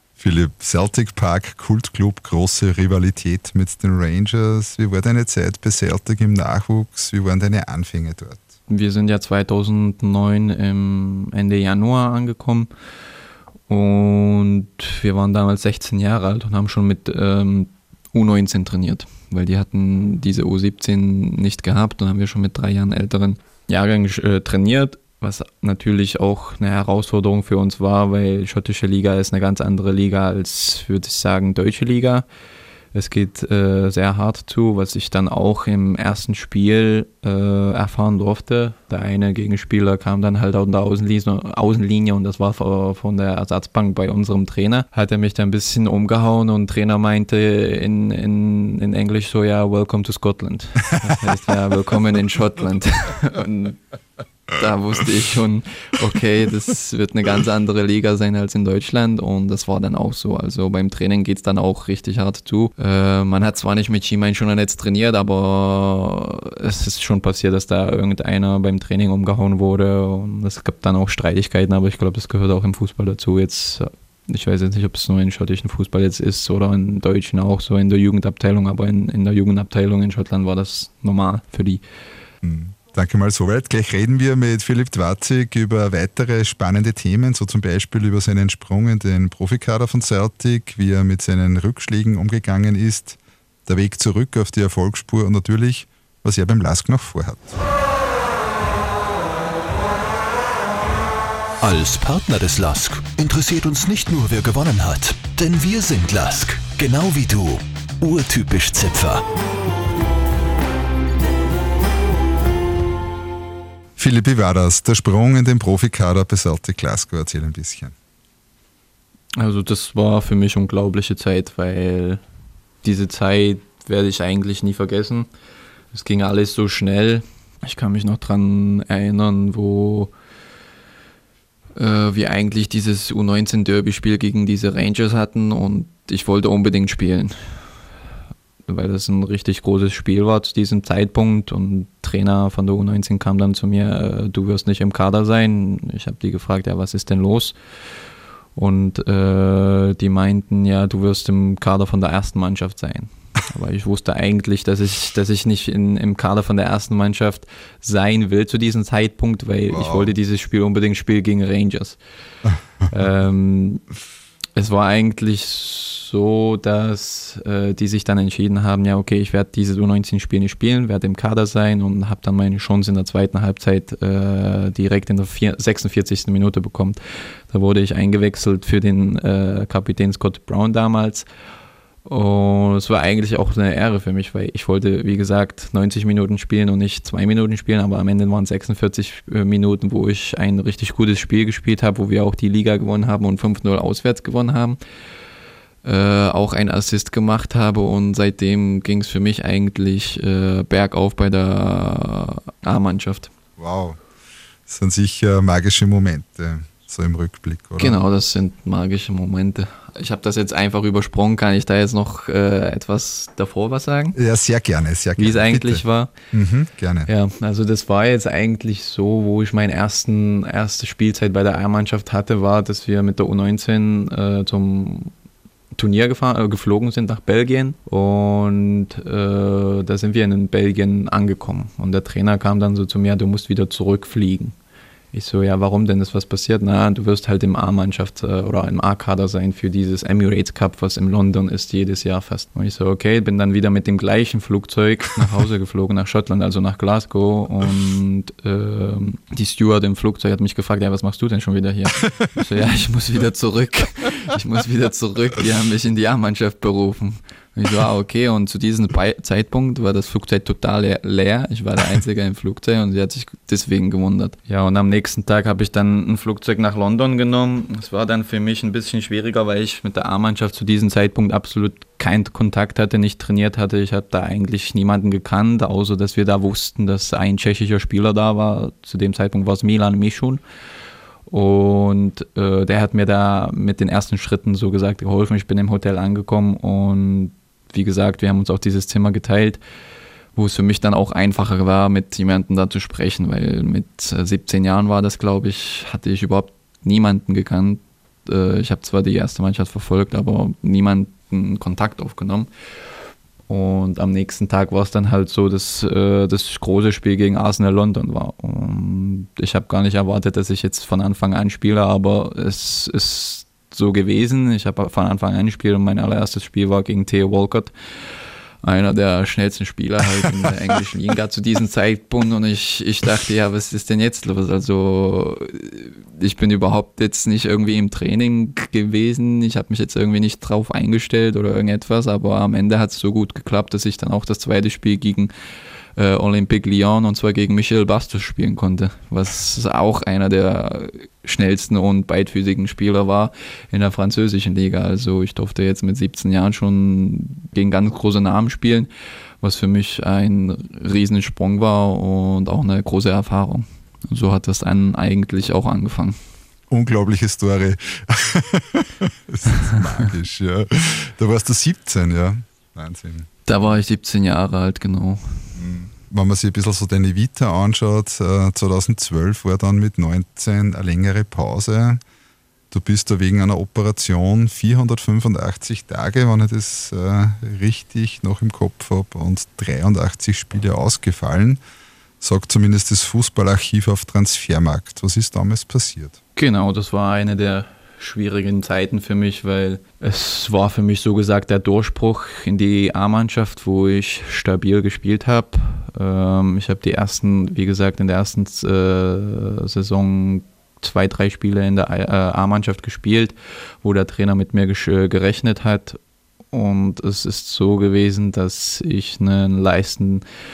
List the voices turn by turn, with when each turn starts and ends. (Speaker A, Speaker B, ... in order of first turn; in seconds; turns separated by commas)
Speaker A: 0.2-8.4, Speaker B: 8.7-12.7, Speaker B: 13.7-32.2, Speaker B: 32.9-53.8, Speaker B: 54.5-81.8, Speaker A: 82.4-97.6, Speaker C: 101.6-109.2, Speaker A: 114.0-117.9, Speaker B: 119.4-122.2, Speaker B: 122.8-125.3, Speaker B: 125.9-130.1, Speaker B: 131.8-137.7, Speaker B: 138.7-147.6, Speaker B: 148.6-162.0, Speaker A: 159.7-160.1, Speaker B: 162.9-163.8, Speaker B: 164.6-181.2, Speaker B: 182.1-194.8, Speaker B: 195.8-203.3, Speaker A: 203.6-204.0, Speaker A: 204.7-208.0, Speaker B: 207.8-214.2, Speaker A: 214.1-217.1, Speaker B: 215.2-216.1, Speaker B: 217.1-225.1, Speaker B: 225.8-234.6, Speaker B: 235.1-280.4, Speaker B: 281.3-289.6, Speaker B: 290.4-302.5, Speaker B: 303.5-317.7, Speaker B: 318.6-335.3, Speaker B: 336.0-348.9, Speaker B: 349.4-356.2, Speaker A: 356.7-363.3, Speaker B: 363.5-365.5, Speaker A: 365.6-372.0, Speaker A: 372.7-381.6, Speaker A: 382.2-386.2, Speaker B: 386.4-406.0, Speaker B: 406.5-410.2